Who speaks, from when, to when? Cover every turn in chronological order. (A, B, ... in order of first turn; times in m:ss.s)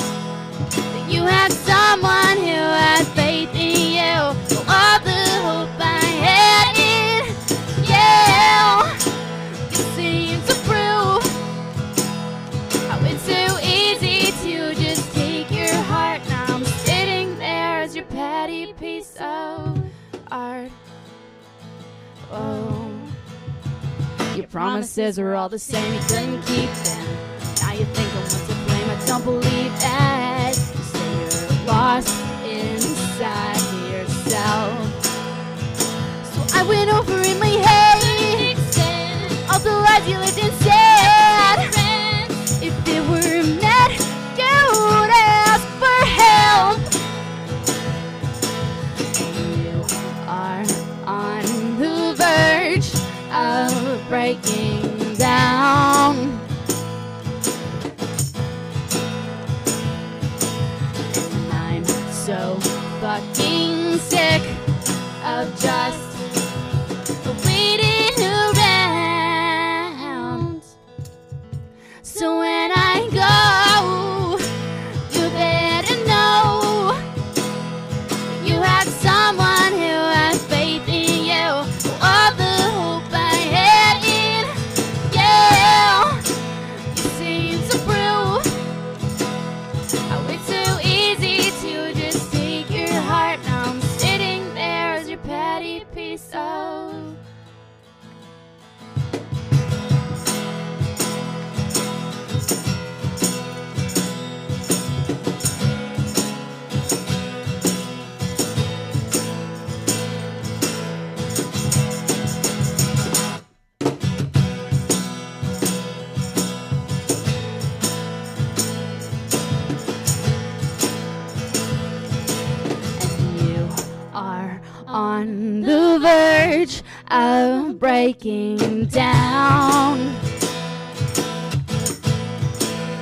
0:00.9-0:09.0 A
0:09.7-0:11.3 A
0:12.9-0:20.8 A
0:22.2-0:23.1 A
0:24.3-0:35.0 A
0:36.2-0:46.9 A
0:49.2-0:56.4 A
1:01.1-1:04.6 A
1:05.2-1:06.2 A
1:07.2-1:10.7 A
1:12.0-1:14.5 A
1:15.1-1:17.0 A
1:18.3-1:24.5 A
1:25.0-1:26.2 A
1:26.9-1:28.5 A
1:30.1-1:37.2 A
2:03.0-2:10.2 A